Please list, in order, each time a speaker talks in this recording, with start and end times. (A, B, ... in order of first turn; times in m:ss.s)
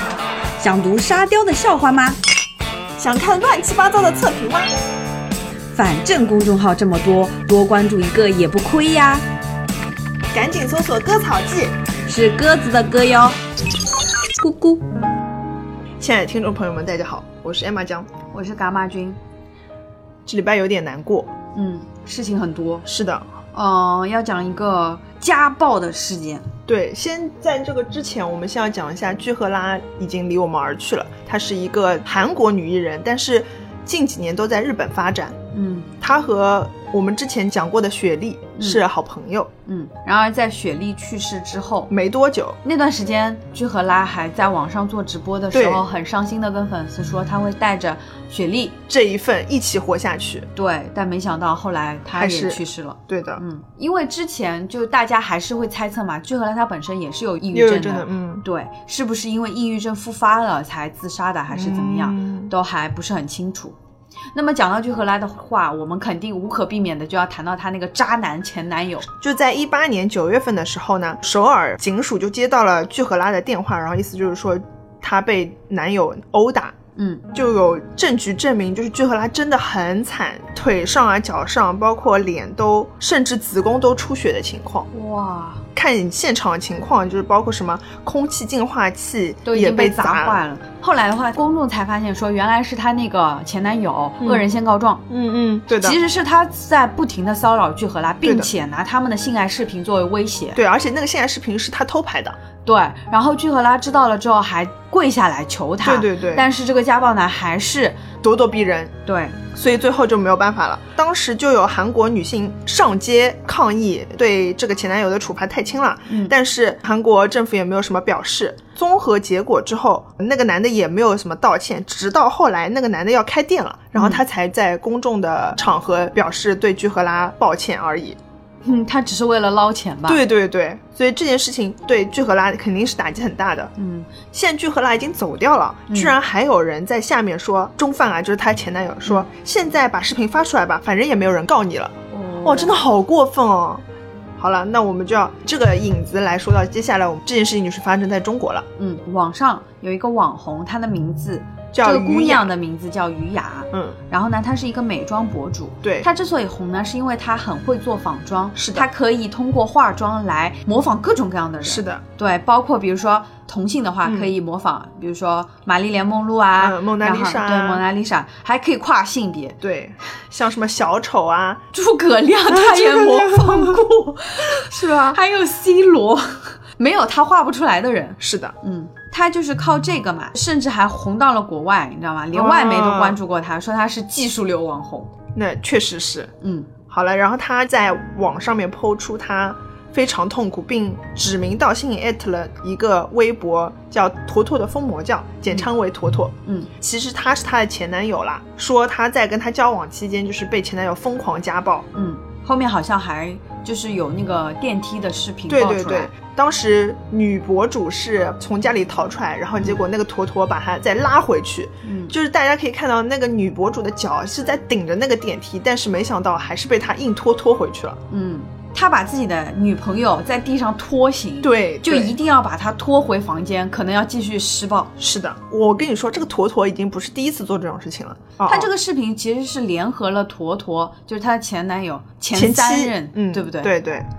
0:00.6-0:02.2 A
0:03.0-0:04.7 B
0:05.7-0:09.2 A
0:10.3-0:11.7 B
0:12.0-0:13.4 A
0:14.4-0:14.8 A
0:16.0-0:18.1 B
0:18.3-0:19.2 A
0:20.2-0:21.3 B
0:21.5-0:22.8 A
0:22.8-0:23.2 B
0:23.5-0:26.4 A
0:26.7-0:35.4 B
0:35.5-0:35.9 A
0:36.0-0:39.5 B
0:39.6-0:41.9 A
0:41.9-0:42.6 B
0:42.6-0:48.8 A
0:45.5-0:45.8 B
0:48.9-0:50.5 B
0:50.5-1:03.7 A
0:52.1-0:53.4 B
0:57.5-0:58.4 B
1:01.5-1:02.5 B
1:04.3-1:09.1 A
1:09.2-1:16.7 B
1:17.0-1:17.2 A
1:17.3-1:24.9 B
1:24.9-1:25.6 A
1:25.7-1:30.4 B
1:29.4-1:35.0 A
1:34.2-1:34.4 B
1:35.1-1:36.0 B
1:35.8-1:40.6 A
1:38.2-1:38.5 B
1:40.5-1:42.4 B
1:42.6-1:48.0 A
1:45.8-1:46.5 B
1:48.2-1:48.9 B
1:49.0-1:49.4 A
1:49.5-2:08.2 B
1:56.1-1:56.3 A
2:03.9-2:04.2 A
2:08.6-2:10.2 A
2:10.1-2:13.7 B
2:13.8-2:14.1 A
2:14.3-2:23.8 B
2:15.9-2:16.2 A
2:22.1-2:22.8 A
2:24.4-2:28.6 B
2:28.8-2:49.6 A
2:31.7-2:32.5 B
2:35.8-2:36.1 B
2:38.6-2:38.9 B
2:41.6-2:42.0 B
2:44.0-2:44.3 B
2:46.6-2:47.8 B
2:49.6-2:51.6 B
2:51.7-3:05.1 A
2:52.5-2:53.8 B
2:54.6-2:55.2 B
2:58.2-2:58.5 B
3:02.3-3:03.2 B
3:05.3-3:06.3 B
3:06.4-3:06.7 A
3:06.9-3:21.9 B
3:16.4-3:16.7 A
3:21.9-3:26.1 A
3:25.5-3:38.0 B
3:31.8-3:32.1 A
3:38.1-3:44.9 A
3:41.4-3:42.2 B
3:45.0-3:48.7 B
3:48.4-3:53.7 A
3:52.3-3:54.1 B